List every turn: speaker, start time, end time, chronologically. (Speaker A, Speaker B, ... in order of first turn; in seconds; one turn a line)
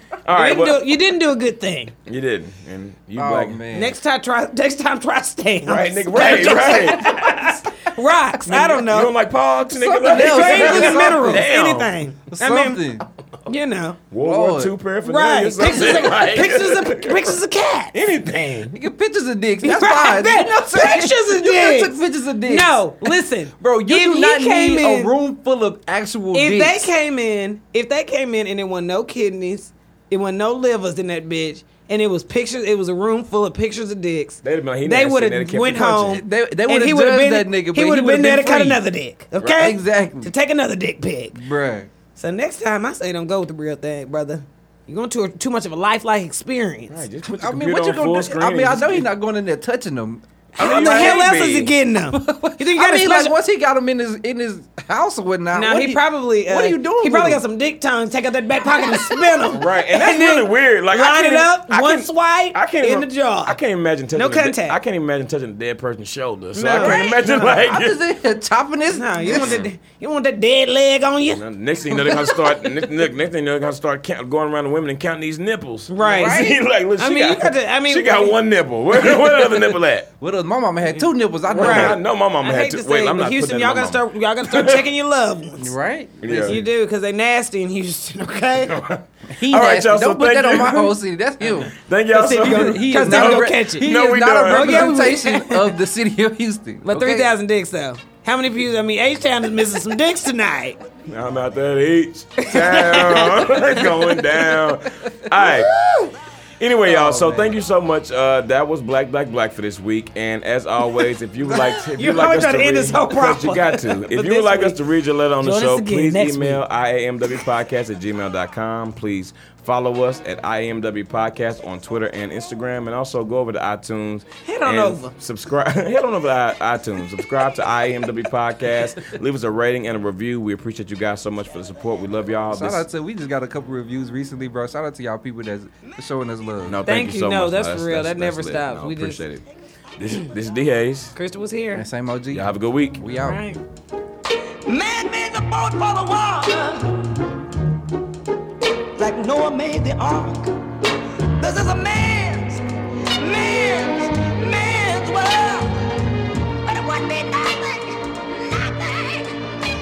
Speaker A: 0.2-0.8
Speaker B: 0.3-1.9
Speaker A: 2.1-3.6
Speaker C: 3.1-4.0
Speaker B: 3.7-9.1
Speaker A: 5.6-7.2
Speaker A: 8.4-11.9
Speaker C: 9.7-11.5
Speaker B: 10.1-12.8
Speaker C: 12.3-13.0
Speaker B: 13.5-14.0
Speaker A: 14.1-17.3
Speaker C: 14.2-14.7
Speaker B: 15.0-17.9
Speaker A: 17.9-18.8
Speaker C: 18.7-26.9
Speaker B: 19.6-25.1
Speaker B: 26.3-41.4
Speaker A: 34.4-36.2
Speaker C: 36.1-38.8
Speaker C: 39.5-40.3
Speaker C: 41.3-41.9
Speaker B: 42.1-47.0
Speaker A: 46.9-49.1
Speaker C: 47.2-51.3
Speaker A: 50.6-51.7
Speaker B: 50.6-53.4
Speaker C: 52.1-57.4
Speaker B: 55.5-63.6
Speaker A: 59.5-68.0
Speaker B: 64.2-64.8
Speaker B: 66.5-67.6
Speaker C: 66.7-69.6
Speaker B: 68.9-71.4
Speaker A: 69.3-69.7
Speaker A: 71.3-80.1
Speaker C: 71.9-72.4
Speaker B: 75.9-78.4
Speaker C: 76.0-76.6
Speaker C: 80.2-82.0
Speaker A: 81.5-84.8
Speaker B: 81.5-85.7
Speaker C: 85.6-86.7
Speaker A: 86.2-86.6
Speaker B: 86.3-88.8
Speaker A: 88.7-90.9
Speaker C: 89.3-91.7
Speaker A: 91.5-95.0
Speaker B: 92.1-95.8
Speaker C: 92.4-97.3
Speaker B: 96.8-100.8
Speaker A: 101.1-105.7
Speaker B: 102.4-104.5
Speaker B: 105.4-106.2
Speaker A: 106.6-132.8
Speaker C: 106.8-107.6
Speaker B: 111.9-114.8
Speaker B: 115.4-116.6
Speaker B: 124.4-125.1
Speaker C: 132.5-136.8
Speaker A: 136.7-139.4
Speaker B: 136.8-139.2
Speaker A: 140.0-141.2
Speaker B: 141.1-141.8
Speaker C: 141.7-143.4
Speaker A: 142.3-143.0
Speaker B: 143.1-143.6
Speaker D: 144.6-147.3
Speaker D: 148.9-150.7
Speaker D: 151.3-152.6
Speaker D: 153.1-155.8
Speaker D: 156.7-159.3